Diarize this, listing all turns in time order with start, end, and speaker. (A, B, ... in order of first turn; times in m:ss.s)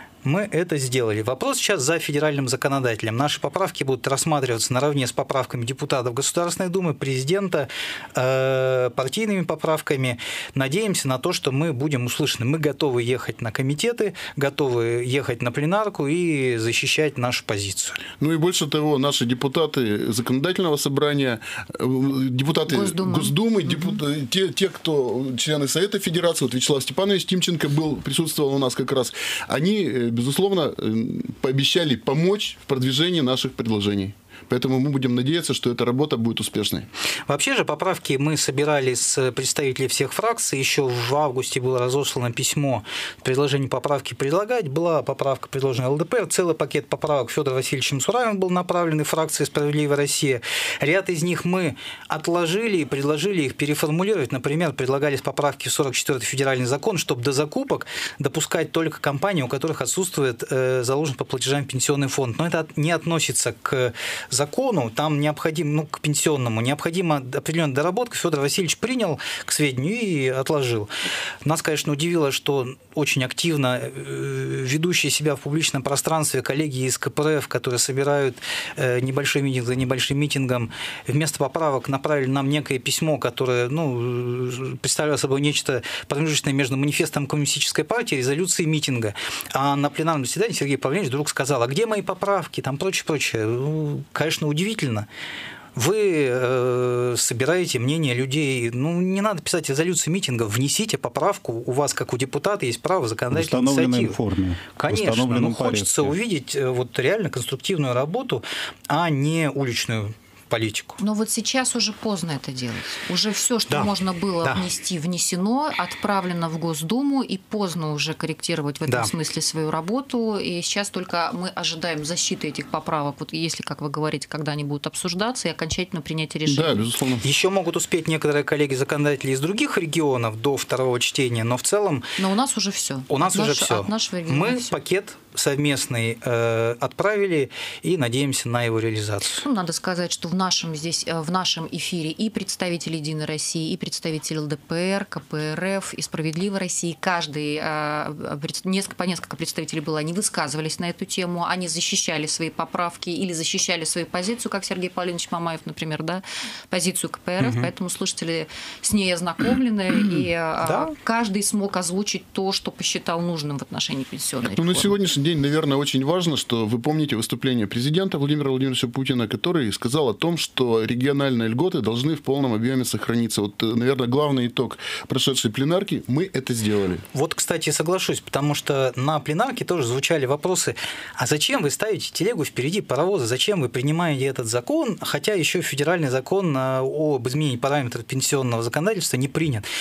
0:00.2-0:18.0 A
0:18.2-0:36.9 B
0:22.7-0:24.0 C
0:37.3-1:10.9 A
1:11.4-1:35.1 A
1:35.7-1:44.2 A
1:43.3-1:46.1 D
1:44.8-1:51.0 A
1:51.0-2:06.8 C
2:06.4-2:07.2 B
2:07.2-2:12.0 A
2:12.2-2:14.7 C
2:13.1-2:19.4 A
2:19.3-2:44.9 C
2:37.4-2:37.7 A
2:44.4-2:57.0 B
2:57.1-3:09.6 A